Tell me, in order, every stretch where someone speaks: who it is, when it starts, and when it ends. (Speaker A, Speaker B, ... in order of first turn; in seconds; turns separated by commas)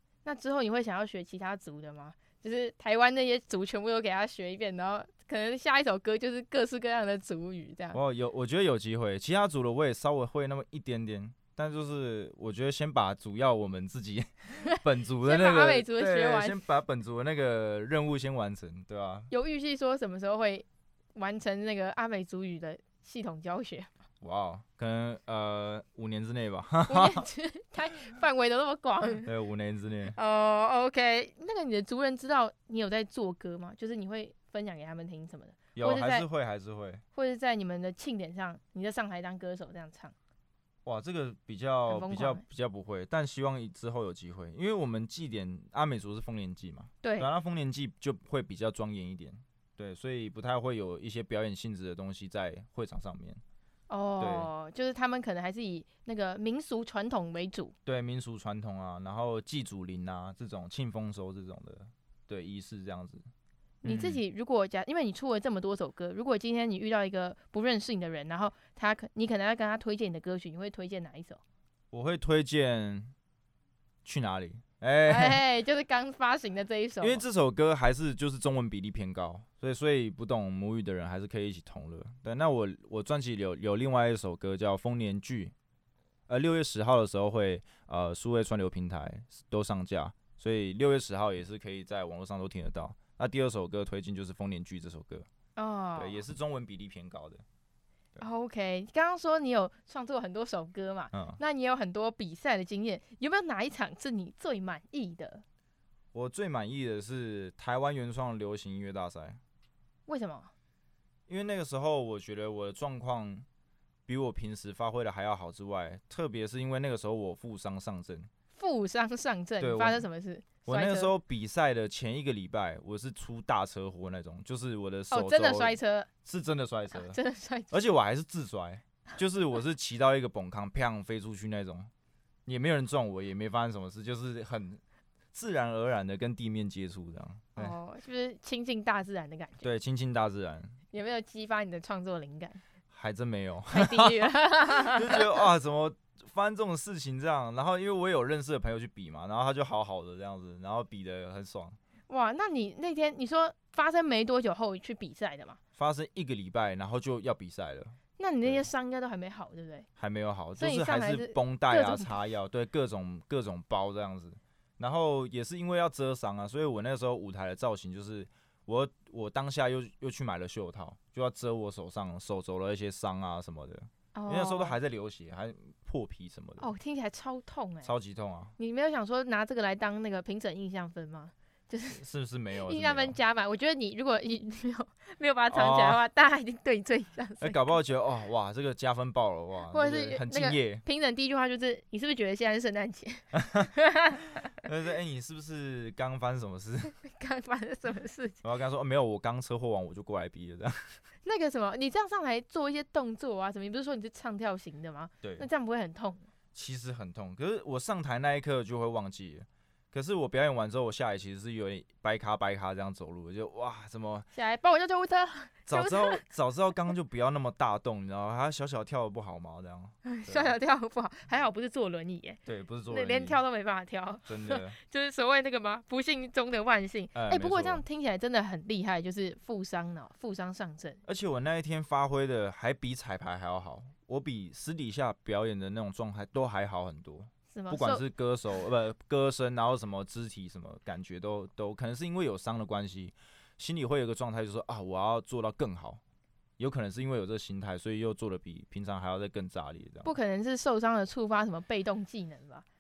Speaker A: 0.2-8.0, Speaker B: 7.9-19.3, Speaker A: 14.7-16.6, Speaker A: 19.3-23.9, Speaker B: 24.2-27.3, Speaker A: 26.9-29.3, Speaker B: 29.2-30.2, Speaker A: 30.1-36.3, Speaker B: 35.8-37.0, Speaker A: 37.1-40.1, Speaker B: 40.9-53.4, Speaker A: 41.9-42.4, Speaker A: 47.0-47.3, Speaker A: 53.9-57.8, Speaker B: 54.2-54.5, Speaker B: 57.9-63.2, Speaker A: 63.8-71.4, Speaker B: 63.8-64.2, Speaker B: 71.9-73.1, Speaker B: 74.0-75.4, Speaker A: 75.1-77.2, Speaker B: 77.0-85.5, Speaker B: 86.3-95.3, Speaker A: 95.6-96.2, Speaker B: 96.0-97.4, Speaker A: 98.2-105.4, Speaker B: 101.1-101.4, Speaker B: 106.1-109.4, Speaker A: 110.1-110.5, Speaker B: 111.3-113.5, Speaker B: 114.1-118.3, Speaker A: 118.5-121.1, Speaker B: 119.6-120.1, Speaker B: 120.7-127.2, Speaker A: 125.1-126.1, Speaker A: 126.9-127.7, Speaker B: 127.7-131.9, Speaker B: 132.5-134.8, Speaker B: 135.3-137.8, Speaker A: 137.6-139.7, Speaker B: 139.6-140.8, Speaker A: 140.9-142.6, Speaker B: 142.9-151.8, Speaker A: 143.7-145.4, Speaker A: 152.1-155.6, Speaker B: 155.8-158.7, Speaker A: 158.2-159.9, Speaker B: 160.0-176.7, Speaker A: 160.6-162.2, Speaker A: 174.1-174.8, Speaker A: 176.6-177.9, Speaker B: 177.8-178.6, Speaker A: 178.6-182.0, Speaker B: 181.9-183.2, Speaker A: 182.7-187.6, Speaker B: 185.5-186.0, Speaker B: 187.4-190.8, Speaker A: 189.7-194.5, Speaker B: 193.3-193.7, Speaker B: 194.6-197.0, Speaker A: 197.0-198.4, Speaker B: 198.4-200.8, Speaker A: 201.2-206.3, Speaker B: 205.2-205.5, Speaker B: 206.5-214.3, Speaker A: 214.3-216.2, Speaker B: 215.7-220.5, Speaker A: 220.1-231.0, Speaker B: 222.5-223.4, Speaker B: 224.3-224.8, Speaker B: 227.1-227.8, Speaker B: 231.1-246.0, Speaker A: 237.5-238.1, Speaker B: 246.6-250.1, Speaker A: 250.0-252.7